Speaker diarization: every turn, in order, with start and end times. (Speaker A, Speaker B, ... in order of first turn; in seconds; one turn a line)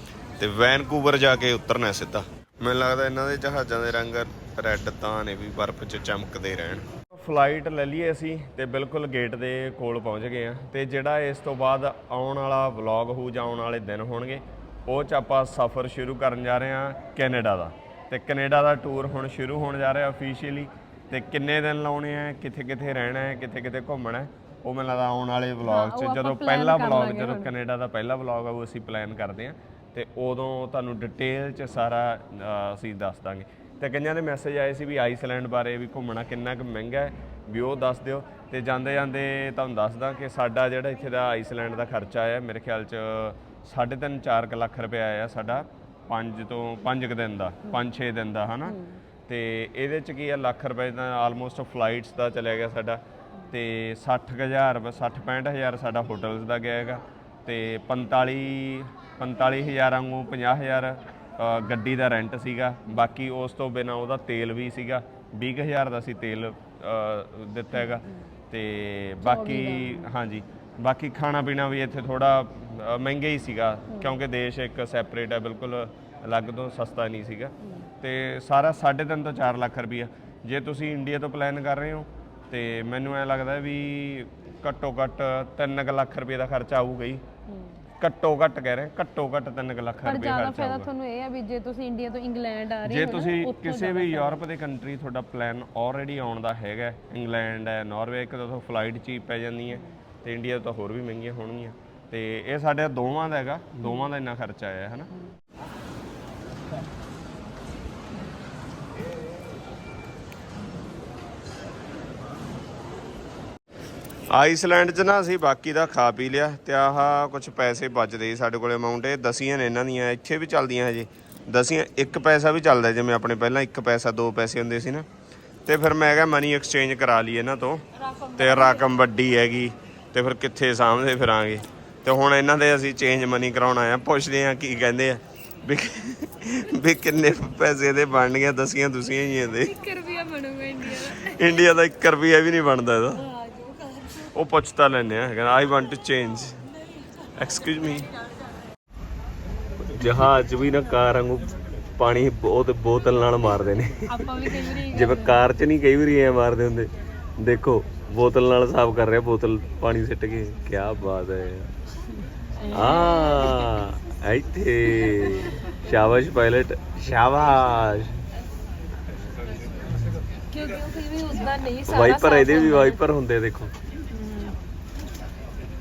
Speaker A: 0.4-87.2
Speaker B: 25.7-27.5
Speaker B: 48.7-49.0
Speaker B: 67.8-68.1
Speaker B: 69.2-70.1
Speaker B: 73.9-74.2
Speaker A: 88.0-90.9
Speaker B: 90.0-94.4
Speaker A: 92.8-105.1
Speaker A: 114.3-125.1
Speaker A: 125.7-139.8
Speaker B: 139.7-141.6
Speaker A: 140.8-143.3
Speaker B: 143.3-144.2
Speaker A: 144.2-146.6
Speaker A: 147.4-148.1
Speaker A: 149.9-161.7
Speaker B: 154.1-155.4
Speaker B: 162.6-163.8
Speaker A: 162.7-168.2
Speaker B: 170.5-173.0
Speaker A: 171.9-173.7
Speaker B: 174.1-174.6